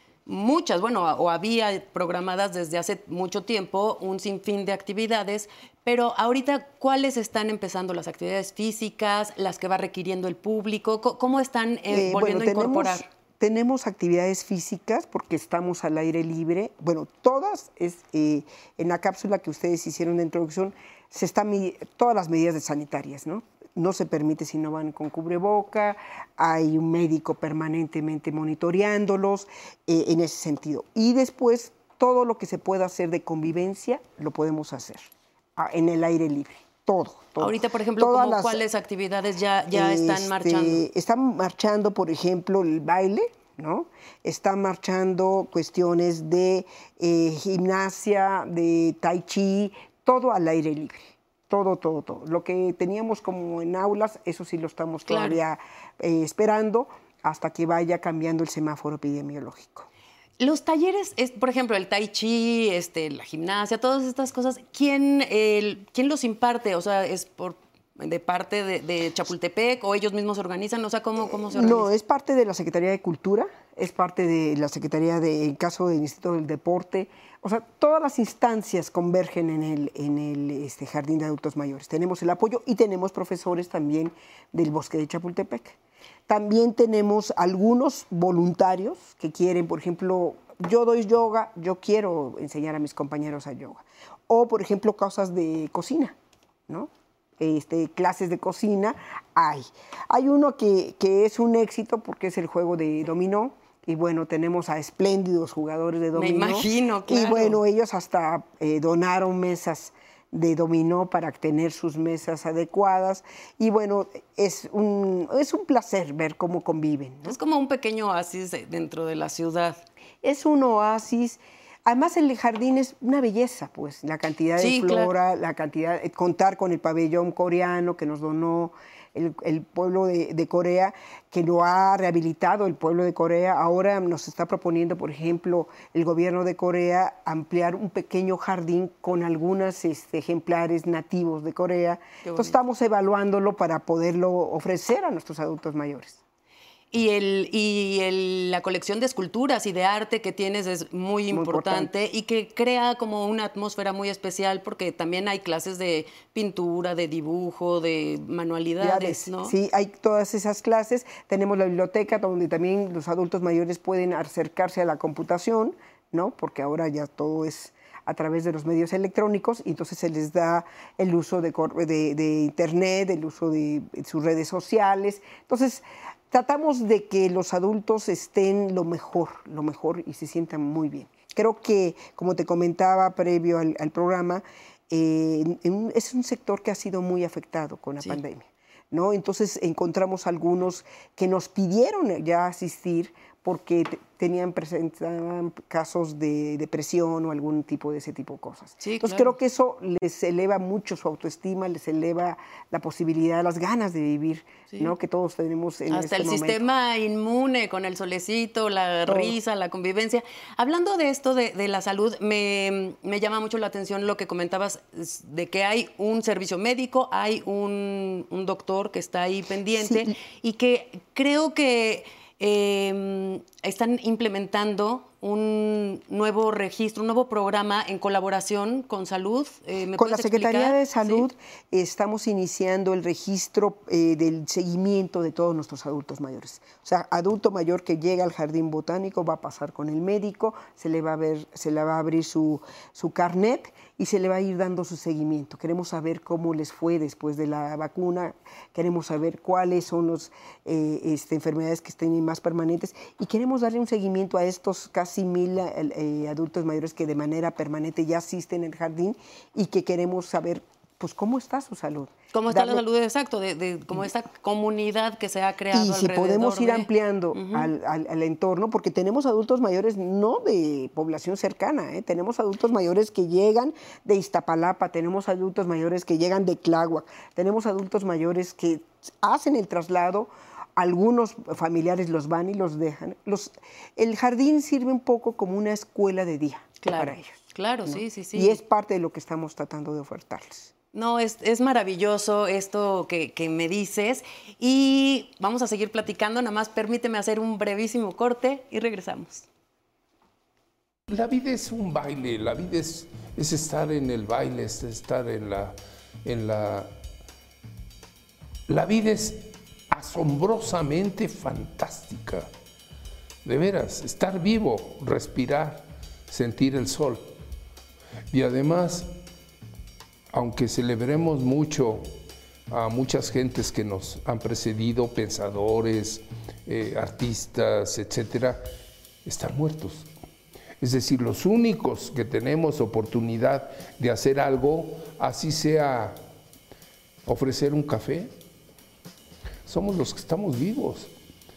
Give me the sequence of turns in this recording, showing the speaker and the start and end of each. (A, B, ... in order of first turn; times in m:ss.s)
0:00.2-0:13.0 A
0:11.9-0:38.6 B
0:37.4-0:40.8 A
0:39.7-0:59.9 B
0:55.1-0:55.4 A
1:00.4-1:11.9 A
1:11.2-1:25.8 B
1:26.3-1:36.2 B
1:36.7-1:57.4 B
1:46.1-1:47.6 A
1:57.2-1:59.8 A
2:00.2-2:26.2 B
2:04.6-2:05.1 A
2:22.2-2:22.6 A
2:26.9-2:39.5 A
2:31.3-2:31.9 B
2:38.8-3:26.6 B
3:18.8-3:19.3 A
3:25.9-3:51.3 A
3:29.0-3:29.4 B
3:39.8-3:40.1 B
3:49.9-4:22.8 B
4:22.3-4:27.7 A
4:25.7-4:50.7 B
4:46.8-4:48.6 A
4:50.9-4:59.5 A
5:01.1-5:06.9 C
5:08.7-5:12.5 C
5:13.4-5:17.3 C
5:18.3-5:19.1 C
5:20.3-5:22.1 C
5:22.7-5:28.6 C
5:29.2-5:30.1 C
5:30.8-5:36.2 C
5:37.2-5:38.3 C
5:39.6-5:41.1 C